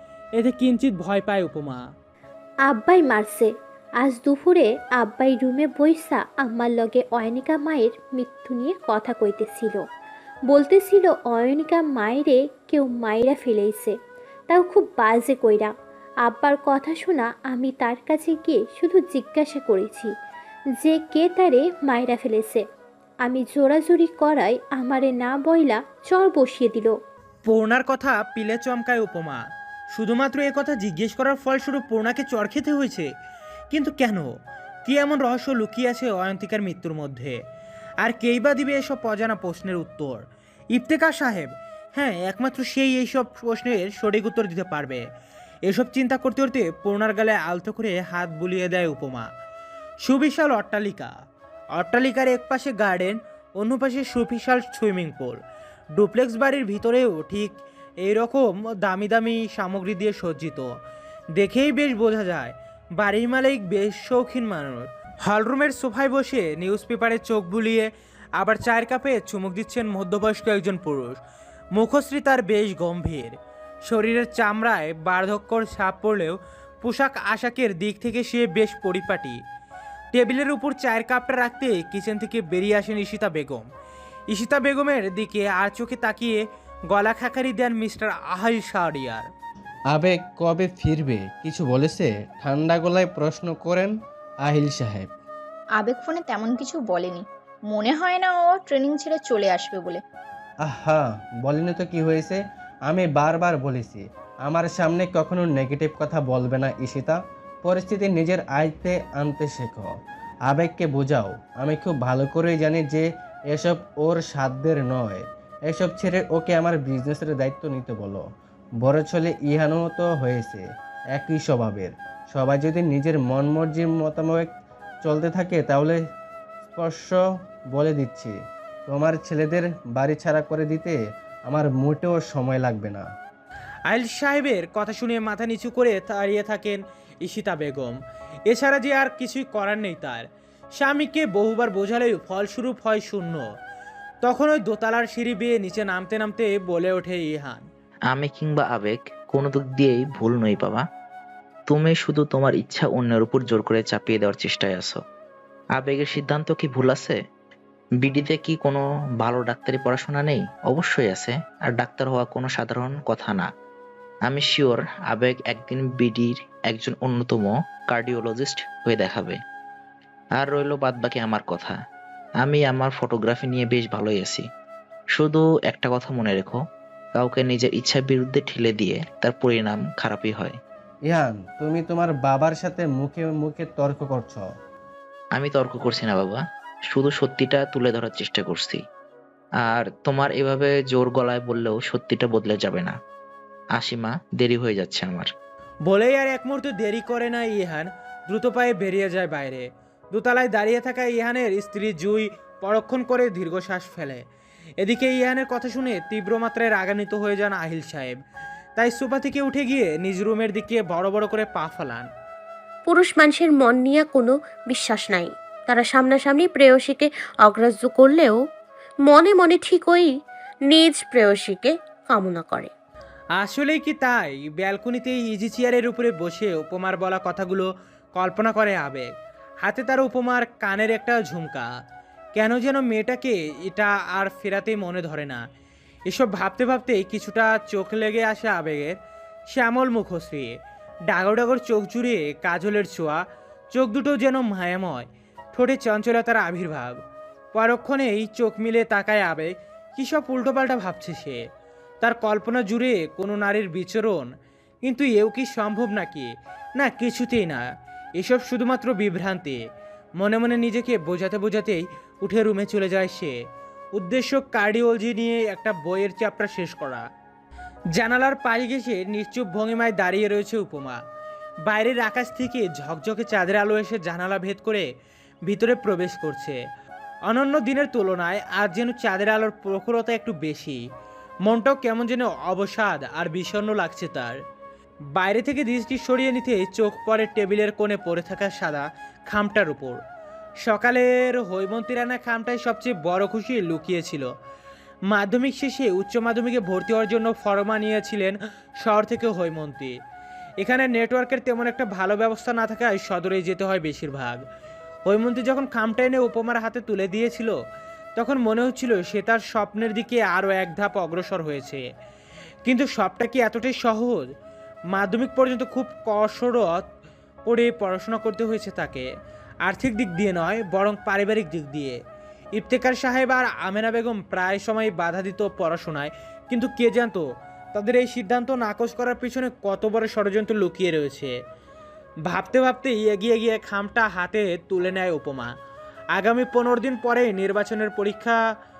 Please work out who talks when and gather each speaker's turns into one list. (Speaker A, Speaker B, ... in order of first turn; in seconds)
Speaker A: 0.4-1.8, 27.4-29.4, 29.9-33.1, 33.7-34.3, 34.8-37.4, 38.0-40.2, 40.7-45.0, 45.7-49.3, 50.0-51.1, 51.7-55.4, 55.9-60.7, 61.4-71.2, 71.7-79.4, 80.1-83.7, 84.3-86.4, 86.9-89.2, 133.9-138.0, 138.5-140.2, 140.8-143.4, 144.2-147.6, 195.8-204.2, 204.8-208.2, 208.8-212.1, 223.4-229.1, 229.6-231.7, 232.3-235.4, 236.1-238.9, 239.5-240.5, 241.1-243.2, 243.7-247.0, 247.5-251.4, 252.0-254.3, 254.8-257.7, 258.2-259.6, 260.2-263.3, 263.9-267.0, 267.9-271.0, 271.6-274.9, 275.5-276.6, 277.3-280.8, 281.4-284.4, 285.1-290.0, 290.6-294.3, 295.1-299.9, 300.6-304.4, 305.1-307.5, 308.1-311.9, 312.6-314.3, 314.9-316.8, 317.4-319.1, 319.6-322.0, 322.6-327.2, 327.7-331.3, 332.3-335.5, 336.1-338.4
Speaker B: 2.6-9.8, 10.5-14.0, 14.5-15.7, 16.2-20.1, 20.8-22.6, 23.2-26.9
Speaker C: 89.9-95.1, 100.6-109.9, 110.5-118.2, 118.8-124.5, 125.0-126.0, 126.7-127.2, 127.7-128.3, 128.9-131.0, 131.5-133.0, 181.1-184.4
Speaker D: 95.8-100.0
Speaker E: 148.1-150.8, 151.7-155.0, 155.8-157.2, 158.0-163.4, 164.3-169.3, 170.4-171.7, 172.4-174.4, 175.2-176.6, 177.2-180.5, 185.3-186.4, 186.9-188.8, 189.7-192.9, 193.8-195.3
Speaker F: 212.8-218.4, 219.1-220.1, 220.7-222.7